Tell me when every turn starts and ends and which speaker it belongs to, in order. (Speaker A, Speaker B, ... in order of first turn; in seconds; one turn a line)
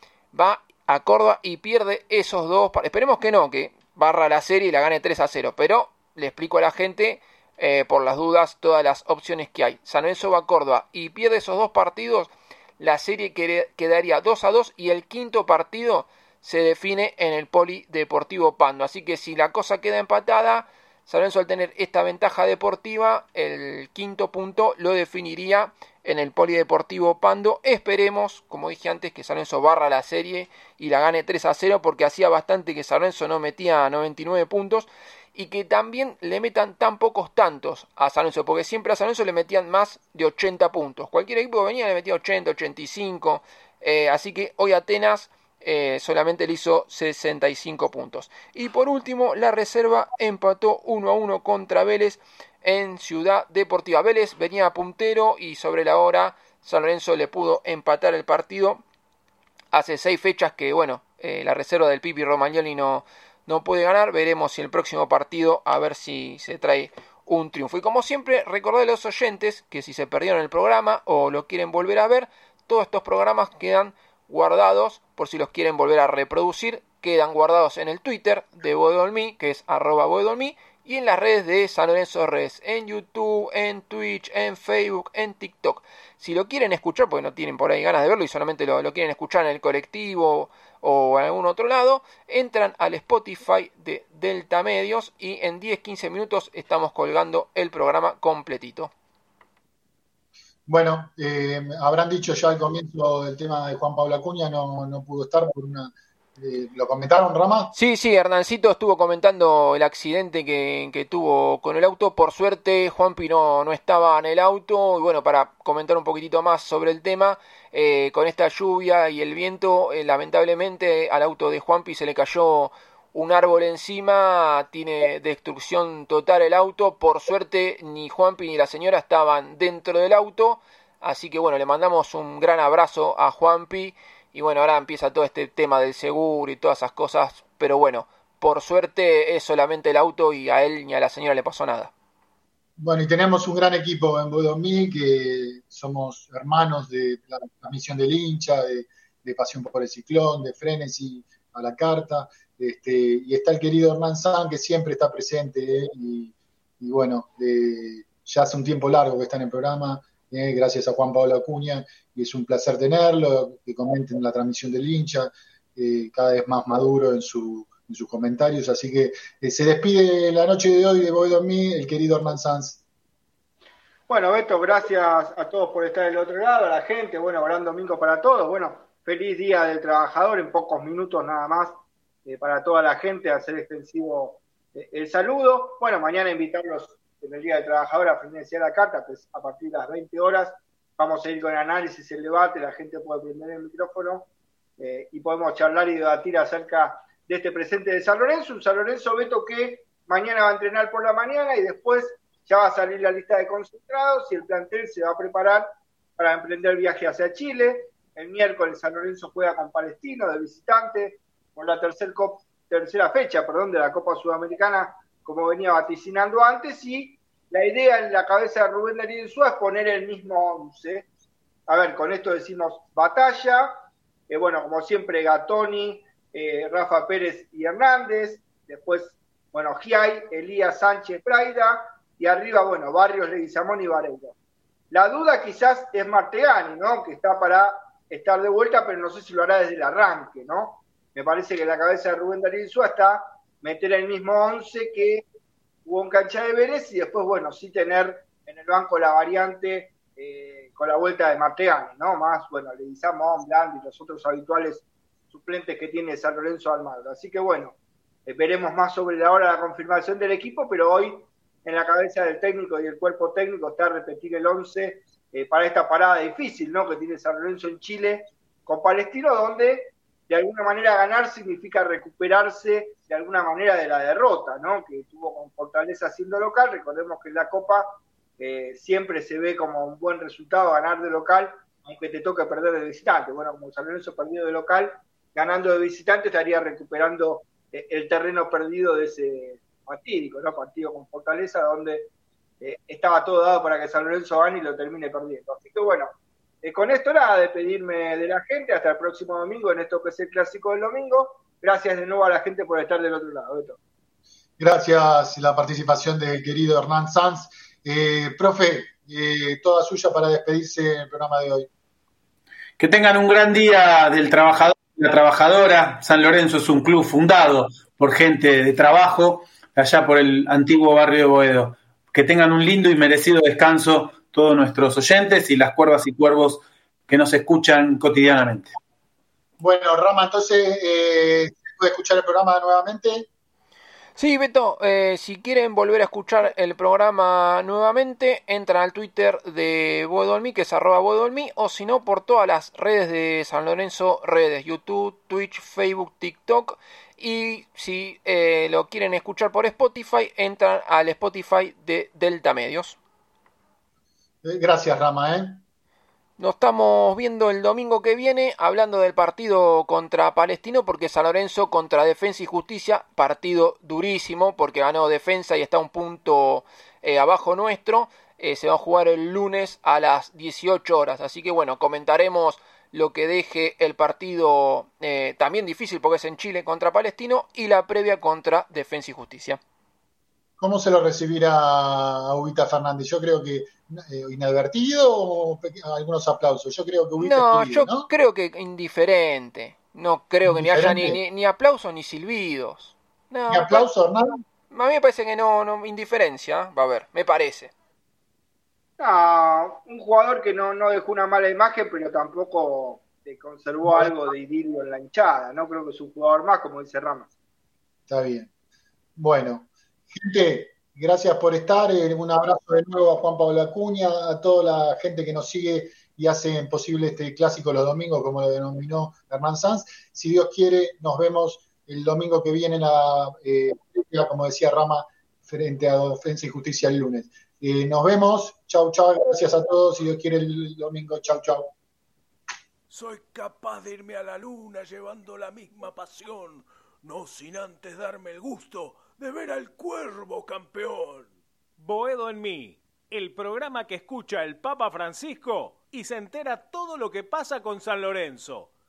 Speaker A: 0.3-58.8
Speaker A: 59.7-98.9
Speaker B: 100.7-107.7
Speaker A: 107.7-141.9
Speaker B: 142.8-172.8
Speaker C: 174.1-221.1
Speaker C: 221.7-234.3
Speaker C: 234.9-245.3
Speaker C: 245.8-303.8
Speaker B: 304.6-311.7
Speaker D: 312.8-328.7
Speaker B: 329.6-333.3
Speaker A: 334.2-353.0
Speaker B: 354.4-355.6
Speaker A: 356.4-379.6
Speaker B: 380.6-388.1
Speaker A: 387.2-393.9
Speaker B: 390.4-391.2
Speaker B: 393.5-394.4
Speaker A: 394.7-397.7
Speaker C: 399.0-407.3
Speaker B: 403.9-404.1
Speaker B: 408.1-408.5
Speaker B: 409.2-431.7
Speaker E: 432.9-448.7